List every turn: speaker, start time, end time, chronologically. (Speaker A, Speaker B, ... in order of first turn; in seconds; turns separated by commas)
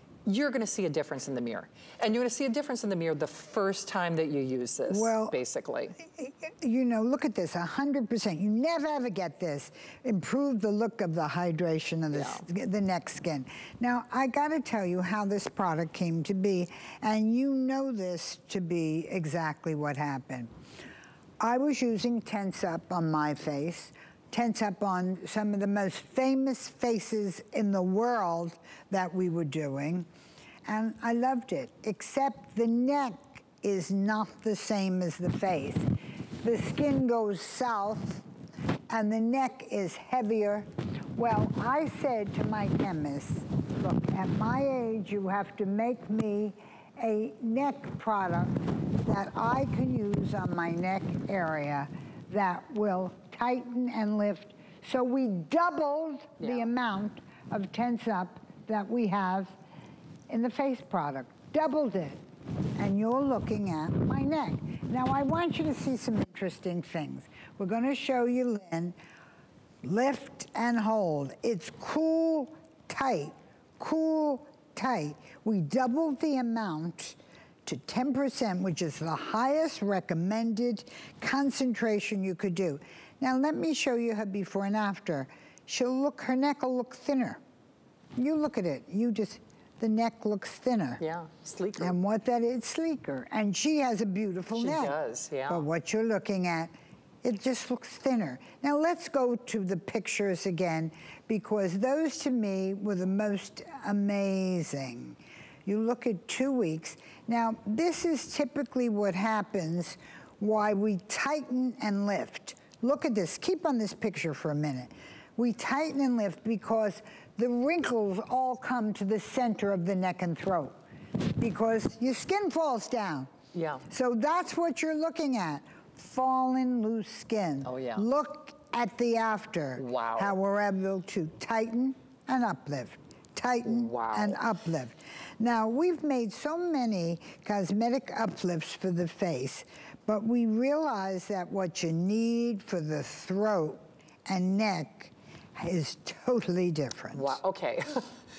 Speaker A: 0.2-5.9, Speaker B: 4.9-5.3, Speaker B: 6.2-20.5, Speaker A: 12.1-12.4, Speaker B: 21.4-30.1, Speaker B: 30.6-35.9, Speaker B: 36.4-38.2, Speaker B: 38.9-59.5, Speaker A: 56.4-56.7, Speaker B: 60.3-62.2, Speaker B: 62.8-69.0, Speaker B: 69.8-87.4, Speaker B: 88.2-91.0, Speaker A: 91.0-92.0, Speaker B: 91.8-95.0, Speaker A: 94.5-95.6, Speaker B: 95.5-96.7, Speaker B: 97.2-120.7, Speaker B: 121.4-123.3, Speaker A: 123.5-123.8, Speaker B: 123.9-147.4, Speaker A: 127.6-128.1, Speaker A: 129.8-130.3, Speaker A: 133.6-134.4, Speaker A: 147.1-148.1